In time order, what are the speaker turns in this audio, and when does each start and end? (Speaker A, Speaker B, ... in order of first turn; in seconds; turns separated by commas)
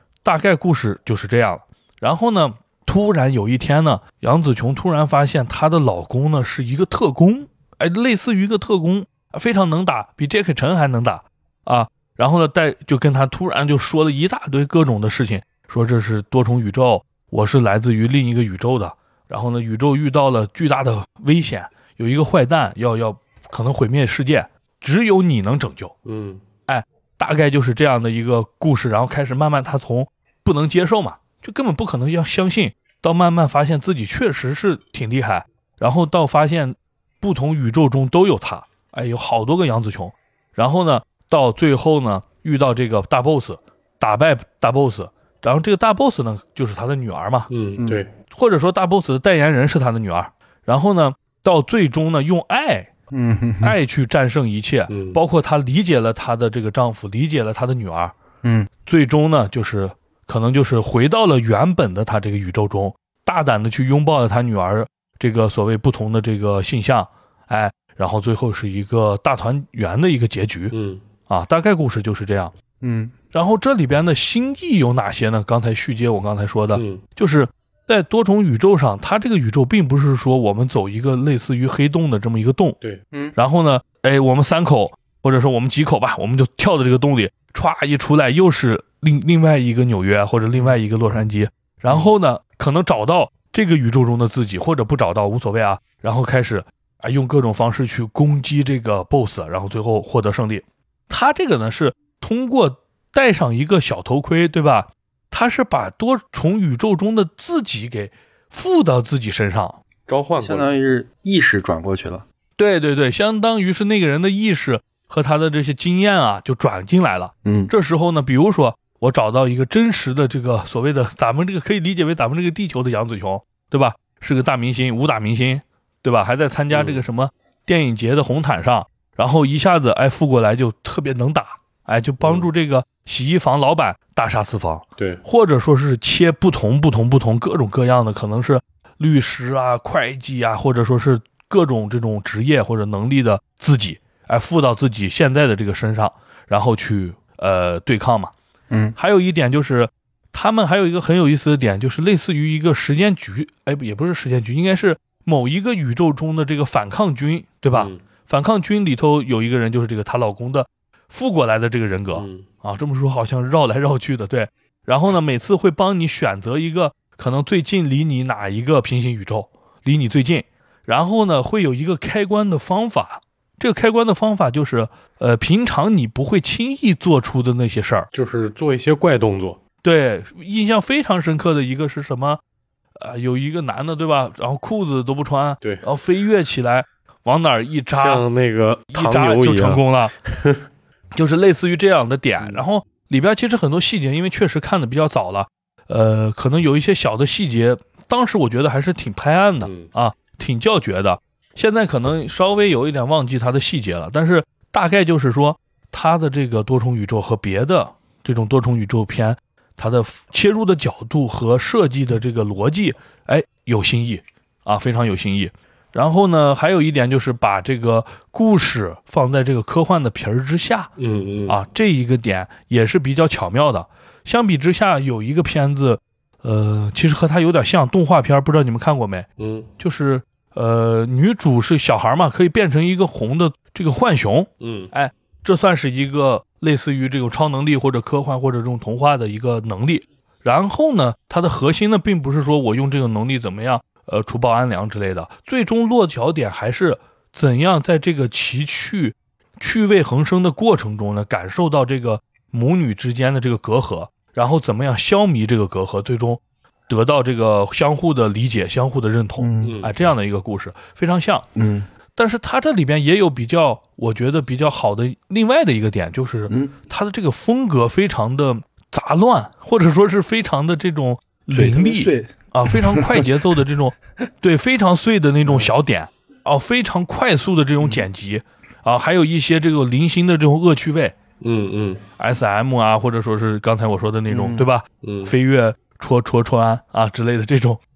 Speaker A: 0.2-25.9, Speaker B: 26.1-26.4, Speaker A: 26.7-47.5, Speaker B: 47.5-48.1, Speaker A: 48.3-52.9, Speaker C: 53.1-53.8, Speaker A: 53.6-58.1, Speaker B: 54.9-55.2, Speaker C: 58.4-58.7, Speaker A: 58.9-70.8, Speaker B: 70.7-71.0, Speaker A: 71.3-72.5, Speaker C: 72.8-73.1, Speaker A: 73.3-82.8, Speaker B: 76.7-77.0, Speaker A: 83.4-109.8, Speaker B: 110.1-110.7, Speaker C: 110.4-112.2, Speaker A: 112.6-148.3, Speaker C: 117.4-117.7, Speaker B: 126.7-127.0, Speaker B: 132.2-132.5, Speaker B: 135.0-135.2, Speaker C: 148.7-149.0, Speaker A: 149.0-178.1, Speaker B: 157.7-158.0, Speaker B: 162.2-162.5, Speaker B: 178.1-179.6, Speaker A: 179.8-182.4, Speaker A: 183.0-188.2, Speaker B: 187.9-190.7, Speaker A: 188.9-190.1, Speaker A: 191.2-220.9, Speaker B: 199.6-199.9, Speaker B: 221.0-221.6, Speaker A: 221.5-229.3, Speaker B: 229.4-229.7, Speaker A: 229.8-261.5, Speaker B: 234.6-234.9, Speaker C: 259.4-259.8, Speaker B: 259.6-259.9, Speaker C: 261.6-261.9, Speaker A: 262.1-281.1, Speaker C: 271.5-273.4, Speaker C: 275.5-275.7, Speaker B: 281.4-282.0, Speaker A: 282.2-287.8, Speaker C: 284.3-284.7, Speaker B: 285.0-285.3